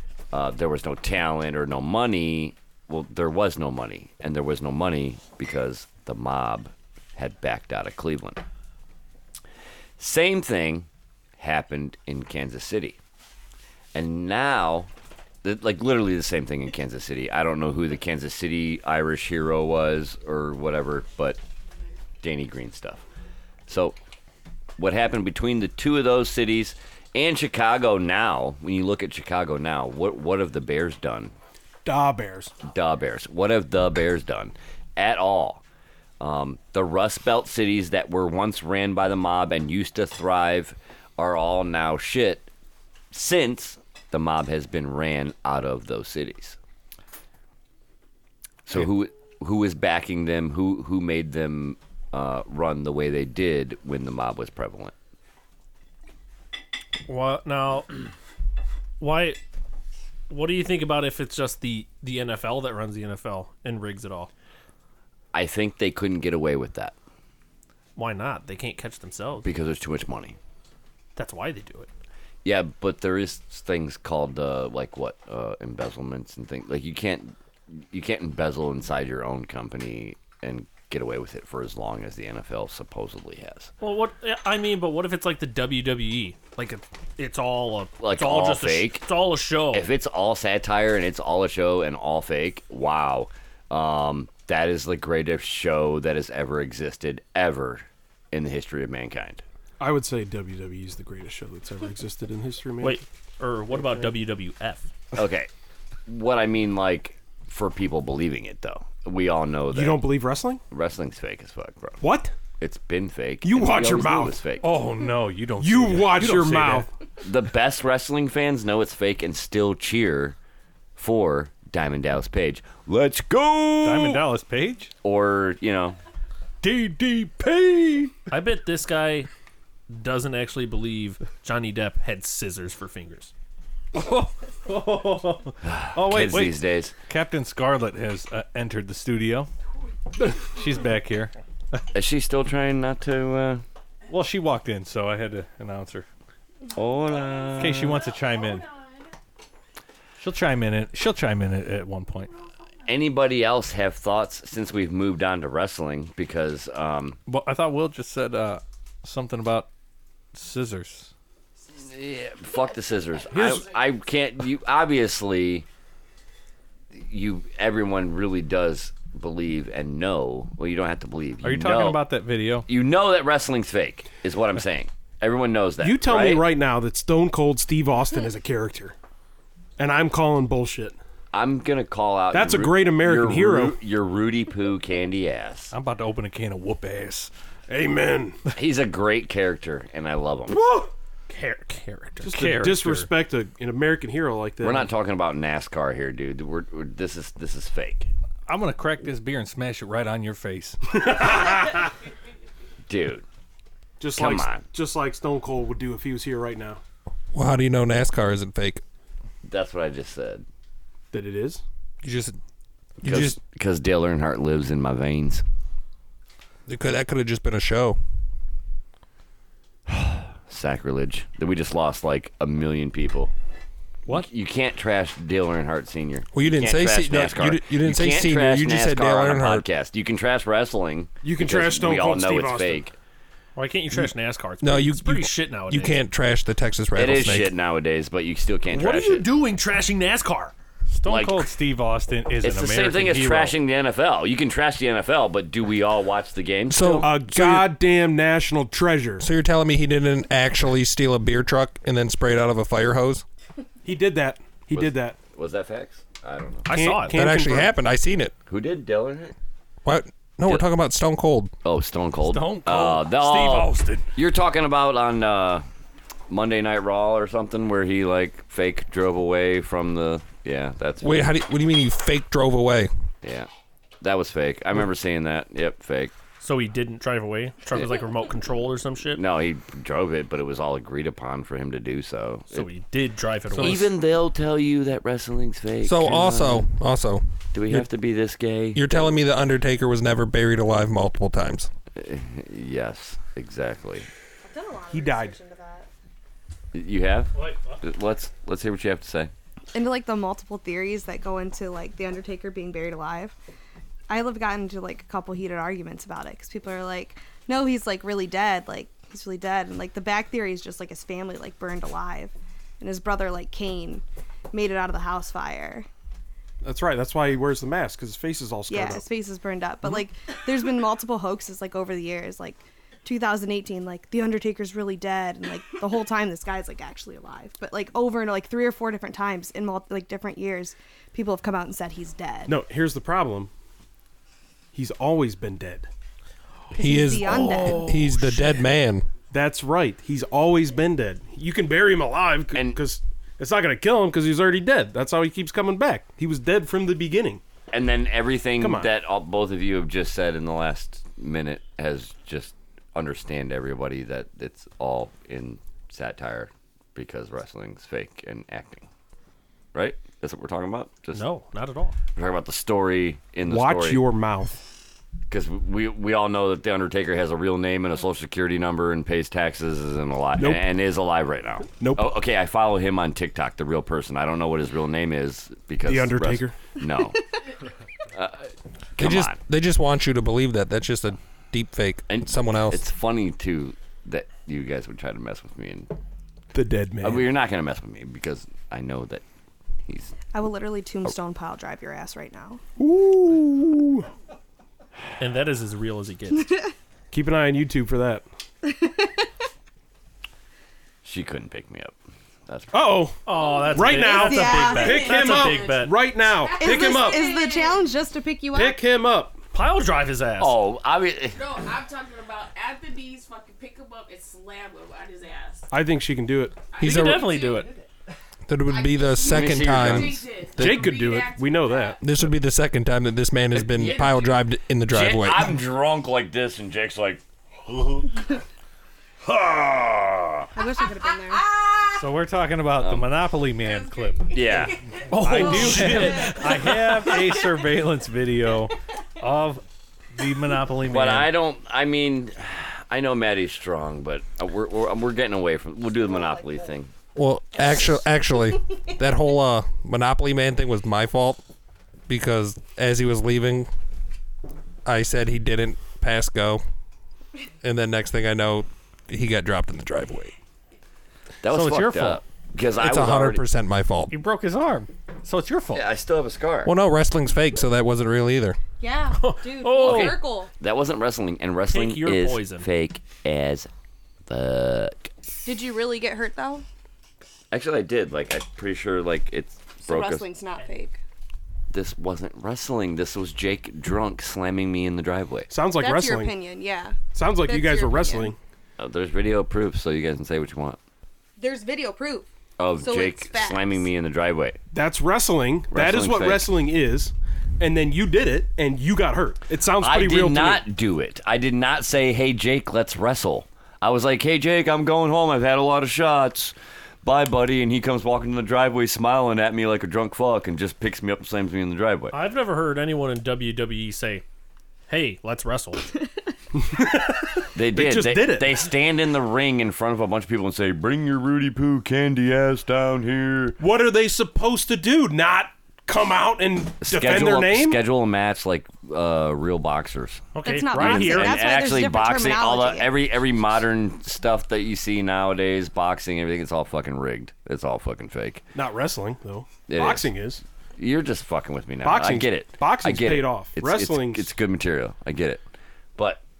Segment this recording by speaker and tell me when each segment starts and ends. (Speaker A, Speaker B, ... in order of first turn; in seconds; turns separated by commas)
Speaker A: 0.3-8.4, Speaker A: 10.0-10.9, Speaker A: 11.4-13.0, Speaker A: 13.9-14.9, Speaker A: 15.4-21.4, Speaker A: 22.2-23.0, Speaker A: 23.7-24.0, Speaker A: 24.8-31.3, Speaker B: 31.8-32.5, Speaker A: 32.6-35.6, Speaker A: 36.2-42.5, Speaker A: 43.1-46.6, Speaker A: 48.7-54.9, Speaker C: 57.1-58.0, Speaker C: 59.0-59.4, Speaker C: 60.3-64.3, Speaker A: 65.3-66.9, Speaker C: 68.0-69.5, Speaker A: 69.4-70.4, Speaker C: 71.2-71.9, Speaker A: 72.4-83.7, Speaker C: 83.8-89.9, Speaker A: 88.0-89.0, Speaker A: 89.7-99.4, Speaker B: 99.8-103.0, Speaker C: 102.8-104.9, Speaker A: 105.1-105.5, Speaker A: 106.1-110.1, Speaker B: 109.7-110.6, Speaker A: 110.7-112.0, Speaker B: 112.0-112.3, Speaker A: 112.6-114.7, Speaker B: 113.4-114.4, Speaker D: 114.6-116.8, Speaker B: 115.6-116.9, Speaker A: 117.2-120.3, Speaker A: 121.0-124.2, Speaker D: 123.8-124.9, Speaker A: 125.0-126.0, Speaker D: 126.6-128.1, Speaker C: 128.3-129.3, Speaker C: 129.9-133.3, Speaker D: 133.9-139.5, Speaker A: 135.7-136.9, Speaker D: 140.2-141.8, Speaker A: 141.9-143.6, Speaker D: 144.1-146.1, Speaker A: 146.7-148.1, Speaker D: 147.6-148.7, Speaker E: 148.1-149.1, Speaker D: 150.2-152.3, Speaker A: 152.8-157.2, Speaker D: 157.3-159.7, Speaker D: 160.3-161.1, Speaker A: 161.8-165.7, Speaker B: 163.4-163.6, Speaker A: 166.9-172.1, Speaker D: 171.4-172.7, Speaker A: 172.7-176.5, Speaker B: 175.8-179.0, Speaker B: 179.8-181.0, Speaker A: 181.3-185.7, Speaker B: 182.3-183.8, Speaker D: 185.7-187.3, Speaker B: 187.7-188.4, Speaker A: 188.5-190.7, Speaker C: 191.3-192.3, Speaker B: 192.2-194.9, Speaker D: 192.3-193.1, Speaker A: 194.6-198.1, Speaker D: 198.5-201.3, Speaker B: 201.1-201.7, Speaker A: 202.9-203.2, Speaker B: 204.0-206.8, Speaker A: 204.2-204.7, Speaker F: 207.3-208.8, Speaker A: 209.4-210.4, Speaker B: 211.1-211.6, Speaker D: 212.0-212.3, Speaker F: 213.0-213.4, Speaker A: 213.0-215.4, Speaker F: 216.7-218.0, Speaker A: 219.9-223.3, Speaker A: 224.1-233.0, Speaker F: 226.3-229.7, Speaker B: 231.2-232.8, Speaker C: 233.6-236.0, Speaker F: 234.6-237.5, Speaker A: 236.9-239.3, Speaker C: 238.7-240.5, Speaker D: 240.9-243.6, Speaker A: 241.0-241.5, Speaker A: 242.4-247.1, Speaker F: 246.7-247.7, Speaker B: 246.9-249.2, Speaker F: 249.2-253.2, Speaker B: 253.8-255.2, Speaker A: 254.7-256.8, Speaker C: 256.6-257.1, Speaker B: 256.7-257.7, Speaker F: 257.1-258.3, Speaker A: 258.5-259.4, Speaker F: 259.9-261.5, Speaker A: 261.6-265.6, Speaker D: 262.2-264.1, Speaker A: 266.3-271.3, Speaker F: 271.0-272.9, Speaker A: 273.2-273.5, Speaker A: 274.0-276.1, Speaker C: 276.4-279.2, Speaker A: 279.1-282.7, Speaker C: 282.5-283.9, Speaker A: 283.5-286.6, Speaker F: 285.8-287.9, Speaker A: 287.5-289.2, Speaker F: 288.7-291.7, Speaker A: 292.0-294.1, Speaker G: 294.4-295.9, Speaker B: 294.9-295.4, Speaker A: 296.7-299.3, Speaker D: 297.4-297.8, Speaker G: 299.7-303.4, Speaker G: 304.1-315.9, Speaker B: 316.6-319.1, Speaker G: 318.7-332.6, Speaker B: 332.5-333.5, Speaker B: 334.7-335.9, Speaker G: 336.7-338.1, Speaker F: 336.8-339.1, Speaker B: 337.2-338.3, Speaker B: 339.3-347.4, Speaker A: 342.5-342.8, Speaker A: 347.7-358.9, Speaker B: 348.6-348.9, Speaker A: 359.7-361.2, Speaker C: 361.1-362.0, Speaker A: 362.1-364.0, Speaker B: 363.4-364.6, Speaker A: 365.3-377.3, Speaker B: 370.4-370.6, Speaker B: 371.8-372.1, Speaker B: 375.8-376.8, Speaker A: 378.1-379.4, Speaker F: 379.0-382.8, Speaker A: 382.1-385.9, Speaker B: 386.5-387.3, Speaker A: 387.0-389.2, Speaker A: 389.9-390.1, Speaker G: 390.3-392.6, Speaker B: 392.8-394.1, Speaker C: 395.2-396.7, Speaker B: 397.1-398.2, Speaker G: 398.6-399.3, Speaker A: 401.0-401.9, Speaker A: 402.5-403.0, Speaker B: 402.7-403.2, Speaker C: 403.2-406.0, Speaker E: 403.3-407.9, Speaker B: 403.7-407.3, Speaker G: 404.1-405.1, Speaker G: 406.6-408.8, Speaker B: 408.5-409.4, Speaker C: 409.5-410.6, Speaker A: 410.4-411.4, Speaker E: 411.3-415.6, Speaker B: 415.7-416.6, Speaker E: 416.7-417.7, Speaker F: 416.8-417.3, Speaker C: 416.8-417.8, Speaker F: 418.5-420.9, Speaker E: 418.7-422.0, Speaker A: 419.2-420.2, Speaker B: 420.5-422.0, Speaker F: 422.0-425.6, Speaker E: 423.5-424.4, Speaker A: 424.9-428.1, Speaker A: 429.2-430.5, Speaker G: 430.5-431.4, Speaker E: 431.3-432.0, Speaker D: 432.0-434.3, Speaker A: 432.8-433.1, Speaker E: 433.6-434.6, Speaker A: 434.3-434.8, Speaker C: 435.1-436.7, Speaker D: 435.1-441.4, Speaker E: 435.2-437.2, Speaker A: 440.8-446.9, Speaker F: 447.1-451.4, Speaker F: 452.1-453.7, Speaker F: 454.8-456.6, Speaker F: 457.6-460.3, Speaker A: 461.4-463.4, Speaker D: 461.5-462.2, Speaker F: 462.8-464.1, Speaker D: 464.1-465.9, Speaker A: 465.7-466.7, Speaker F: 466.6-468.6, Speaker G: 468.8-470.5, Speaker C: 469.2-470.2, Speaker A: 469.8-473.7, Speaker C: 471.7-472.7, Speaker A: 474.2-475.0, Speaker G: 475.4-476.6, Speaker A: 477.5-480.3, Speaker G: 479.8-481.0, Speaker A: 481.7-485.5, Speaker B: 485.5-486.3, Speaker G: 485.8-488.3, Speaker B: 487.1-488.4, Speaker A: 488.8-490.8, Speaker G: 491.4-493.9, Speaker A: 492.6-494.6, Speaker B: 494.7-500.6, Speaker A: 495.7-496.5, Speaker A: 499.8-512.1, Speaker C: 512.1-514.2, Speaker C: 514.9-515.9, Speaker B: 516.6-518.6, Speaker A: 517.5-523.6, Speaker B: 523.6-527.8, Speaker A: 526.8-538.4, Speaker C: 530.3-531.5, Speaker G: 530.4-532.9, Speaker B: 538.5-540.4, Speaker A: 539.7-540.1, Speaker A: 540.8-545.4, Speaker B: 541.8-544.3, Speaker A: 546.0-546.2